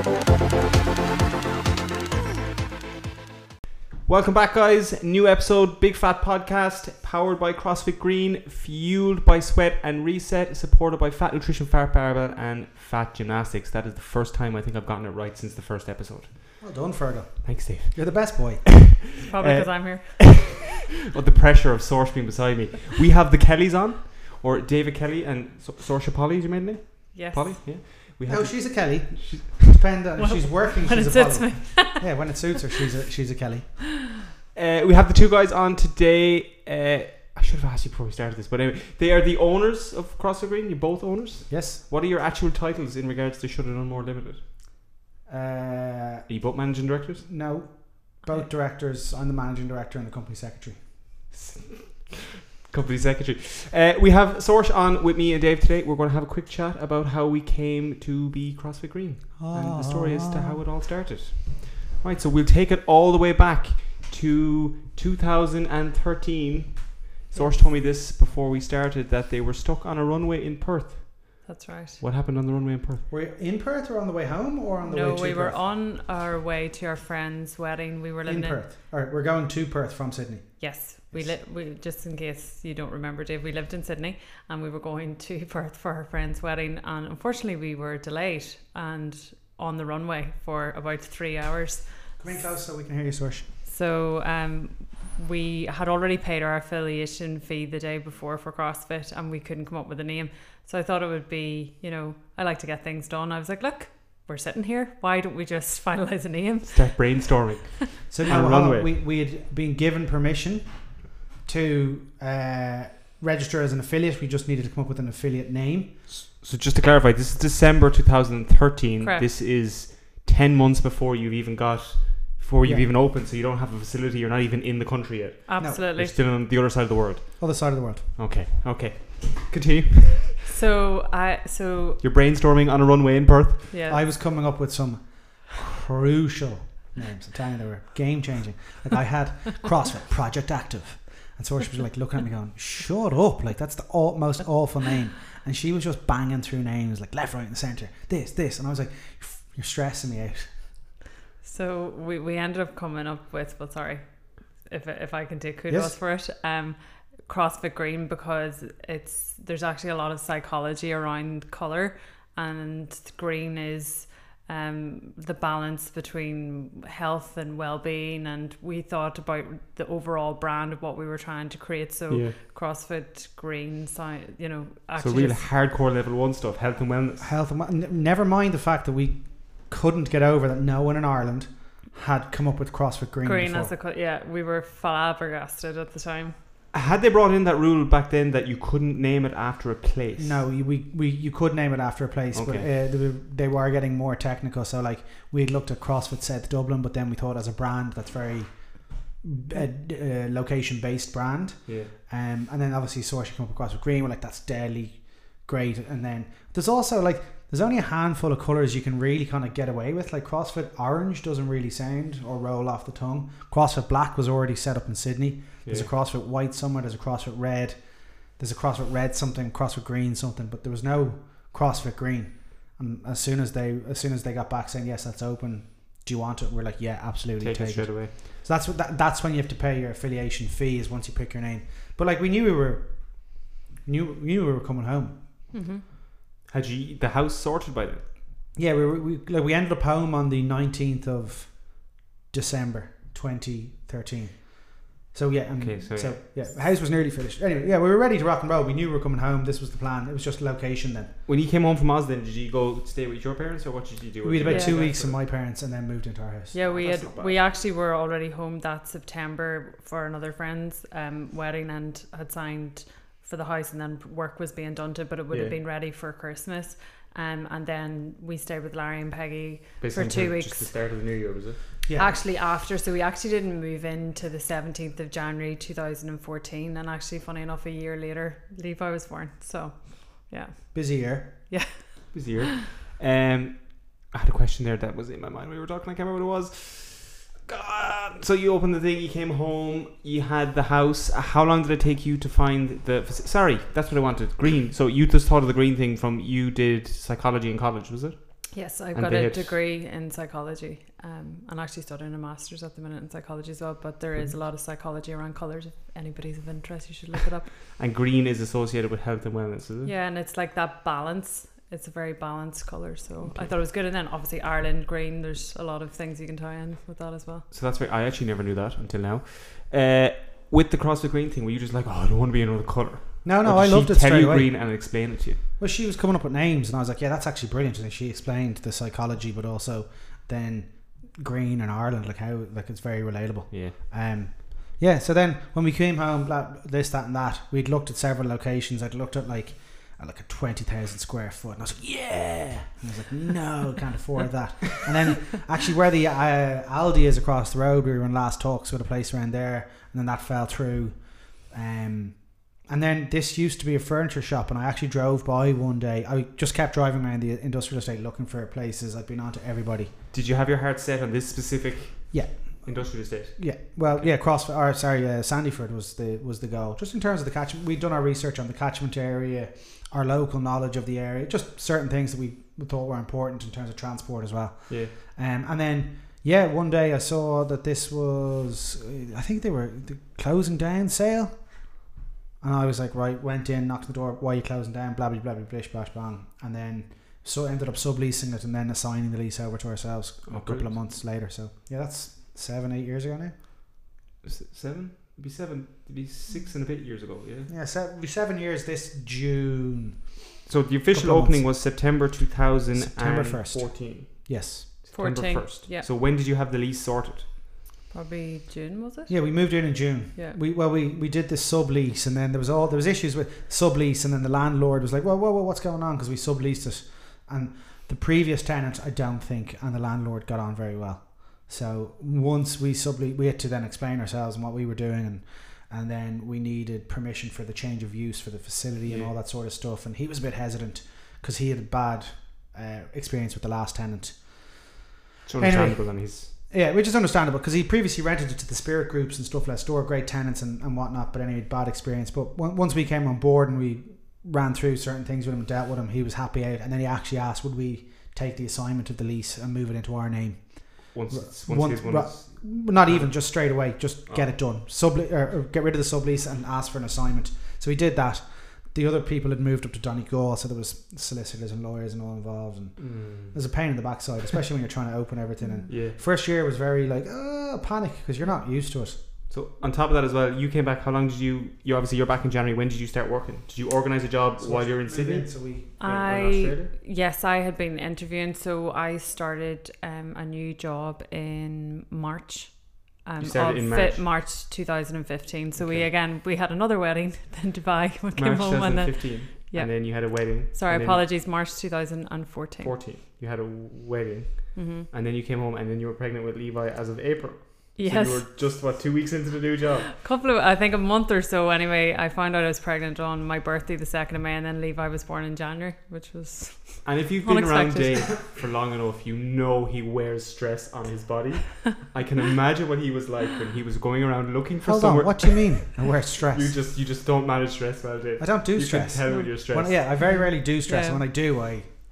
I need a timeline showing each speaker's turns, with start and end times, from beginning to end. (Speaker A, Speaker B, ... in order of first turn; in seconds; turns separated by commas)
Speaker A: 4.0-16.8, Speaker B: 16.6-18.7, Speaker A: 17.4-20.4, Speaker C: 19.2-20.2, Speaker A: 21.1-29.8, Speaker C: 27.1-27.6, Speaker B: 28.2-33.9, Speaker C: 30.2-32.4, Speaker A: 34.5-44.4, Speaker B: 41.5-41.9, Speaker B: 45.3-46.3, Speaker A: 46.3-47.2, Speaker B: 47.2-50.9, Speaker C: 48.2-48.5, Speaker A: 51.3-73.0, Speaker B: 59.4-60.6, Speaker C: 71.4-72.0, Speaker B: 73.1-75.6, Speaker C: 74.8-78.6, Speaker B: 78.2-81.4, Speaker C: 80.6-92.6, Speaker B: 92.2-93.5, Speaker C: 93.6-107.7, Speaker A: 106.7-108.9, Speaker B: 108.1-116.1, Speaker A: 116.1-130.4, Speaker C: 119.0-119.3, Speaker C: 125.5-126.2, Speaker B: 125.6-125.9, Speaker B: 127.4-128.1, Speaker C: 130.5-132.0, Speaker A: 132.0-133.7, Speaker C: 133.7-134.0, Speaker B: 133.9-150.5, Speaker C: 151.4-175.5, Speaker B: 155.7-155.9, Speaker A: 172.1-172.4, Speaker A: 175.0-177.3, Speaker B: 177.2-183.7, Speaker C: 183.2-186.3, Speaker A: 186.7-190.4, Speaker B: 190.2-235.2, Speaker A: 192.3-192.7, Speaker A: 201.7-201.9, Speaker A: 227.4-228.1, Speaker C: 235.5-235.8, Speaker A: 236.5-238.0, Speaker B: 238.5-251.1, Speaker A: 245.6-246.2, Speaker A: 251.2-255.2, Speaker B: 254.2-256.6, Speaker C: 254.4-254.8, Speaker C: 256.5-270.7, Speaker A: 256.7-257.4, Speaker A: 265.3-265.6, Speaker A: 269.8-271.8, Speaker B: 271.9-272.2, Speaker C: 271.9-282.4, Speaker B: 280.7-281.7, Speaker A: 282.1-299.6, Speaker C: 298.5-307.5, Speaker A: 307.8-309.9, Speaker C: 309.8-317.4, Speaker A: 313.2-313.5, Speaker A: 317.5-325.4, Speaker B: 323.2-359.9, Speaker A: 333.5-333.8, Speaker A: 360.1-364.1, Speaker B: 362.1-381.8, Speaker A: 374.7-374.9, Speaker B: 382.4-393.4, Speaker A: 390.2-390.8, Speaker A: 394.2-397.5, Speaker B: 397.5-400.1, Speaker A: 400.4-407.3, Speaker B: 400.9-401.5, Speaker B: 402.7-404.8, Speaker C: 404.9-405.9, Speaker C: 407.9-409.4, Speaker B: 409.1-434.8, Speaker A: 428.8-429.1, Speaker A: 435.2-436.3, Speaker B: 435.4-469.0, Speaker A: 450.9-454.3, Speaker A: 462.8-463.4, Speaker C: 465.4-465.7, Speaker A: 465.7-466.0, Speaker A: 469.3-476.7, Speaker B: 474.4-475.7, Speaker C: 475.8-492.8, Speaker A: 483.2-484.0, Speaker A: 485.6-485.9, Speaker A: 488.1-491.1, Speaker A: 492.6-499.9, Speaker C: 494.5-494.9, Speaker C: 497.8-498.6, Speaker C: 499.9-508.2, Speaker A: 506.8-515.7, Speaker B: 514.6-516.6, Speaker A: 516.3-520.1, Speaker B: 518.2-521.7, Speaker C: 519.1-519.3, Speaker C: 519.9-521.0